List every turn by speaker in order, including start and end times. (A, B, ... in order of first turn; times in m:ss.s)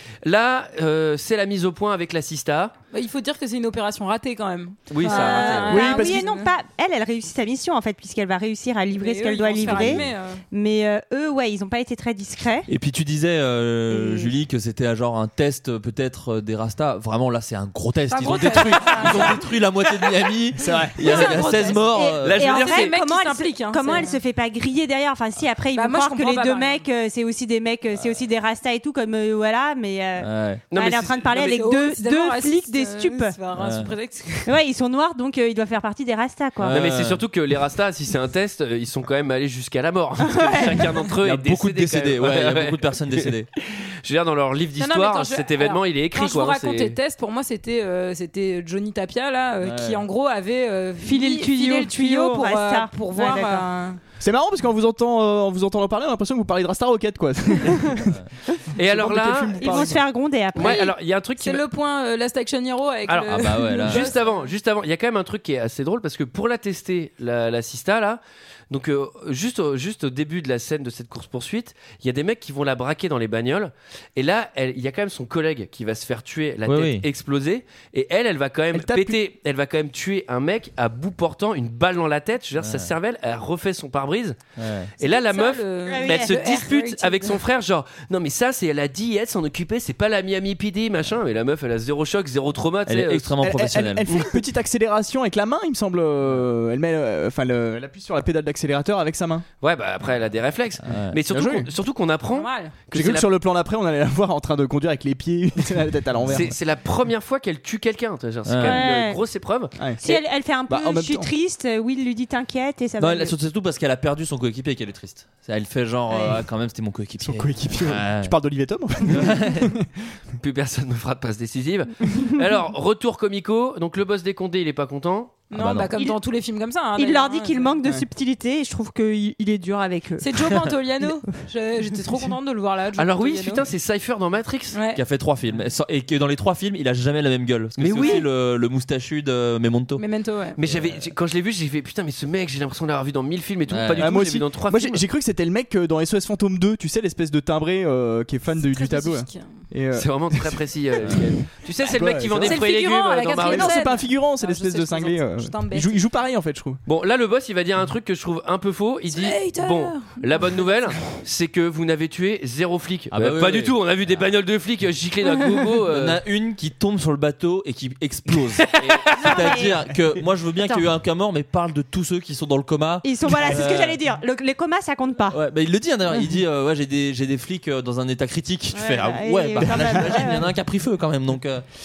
0:00.2-0:02.8 A
0:02.9-0:06.5 B
0:04.9-0:05.7 A
0:05.0-0:12.7 C
0:05.7-0:06.2 D
0:08.9-0:10.4 B
0:09.7-0:10.0 E
0:12.7-0:22.4 E
0:13.9-0:14.3 C
0:18.1-0:19.5 B
0:20.6-0:21.0 D
0:21.0-0:24.2 B
0:21.9-0:33.4 C
0:22.2-0:22.9 A
0:25.7-0:26.8 B
0:30.2-0:30.6 E
0:30.7-0:31.6 A
0:31.4-0:34.5 B
0:33.6-0:33.9 E
0:34.5-0:36.8 C
0:36.6-0:37.2 E
0:36.7-0:46.9 A
0:40.3-0:40.8 C
0:41.2-0:43.5 E
0:44.8-0:54.0 B
0:49.6-0:50.0 E
0:51.0-0:53.7 C
0:54.2-0:58.2 D
0:58.8-0:59.9 A
0:58.8-1:00.1 D
0:59.6-1:00.8 C
1:00.6-1:01.6 A
1:00.6-1:04.5 B
1:03.1-1:24.4 A
1:03.4-1:04.1 E
1:16.7-1:17.1 E
1:18.7-1:19.2 D
1:22.6-1:22.9 E
1:24.6-1:24.9 E
1:25.0-1:27.4 B
1:25.0-1:33.3 A
1:25.9-1:26.3 C
1:32.9-1:34.1 E
1:33.4-1:39.4 D
1:39.6-1:43.3 A
1:40.8-1:41.2 E
1:41.3-1:41.7 D
1:42.3-1:42.8 B
1:42.9-1:46.6 D
1:46.3-1:50.2 A
1:48.5-1:48.8 E
1:48.6-1:49.2 C
1:49.8-1:51.3 D
1:50.0-1:53.3 C
1:53.0-1:58.4 E
1:56.1-1:56.4 C
1:57.2-1:59.9 D
1:59.1-1:59.7 E
2:00.4-2:05.4 A
2:05.5-2:07.8 B
2:05.5-2:06.0 E
2:07.0-2:10.5 C
2:10.2-2:13.7 B
2:13.0-2:14.8 A
2:14.7-2:15.0 B
2:15.0-2:20.0 E
2:17.8-2:18.2 A
2:20.0-2:20.6 B
2:20.6-2:25.0 A
2:20.6-2:21.1 E
2:23.7-2:24.3 E
2:24.0-2:30.6 D
2:28.5-2:29.7 B
2:29.9-2:33.8 A
2:31.8-2:32.6 D
2:32.3-2:36.0 B
2:33.4-2:36.8 D
2:36.9-2:46.2 A
2:39.1-2:40.8 B
2:43.1-2:44.3 E
2:45.9-2:54.0 E
2:48.7-2:49.5 A
2:49.2-2:49.9 C
2:53.0-2:55.4 C
2:55.3-3:01.6 E
2:58.7-3:00.5 C
2:59.8-3:00.2 D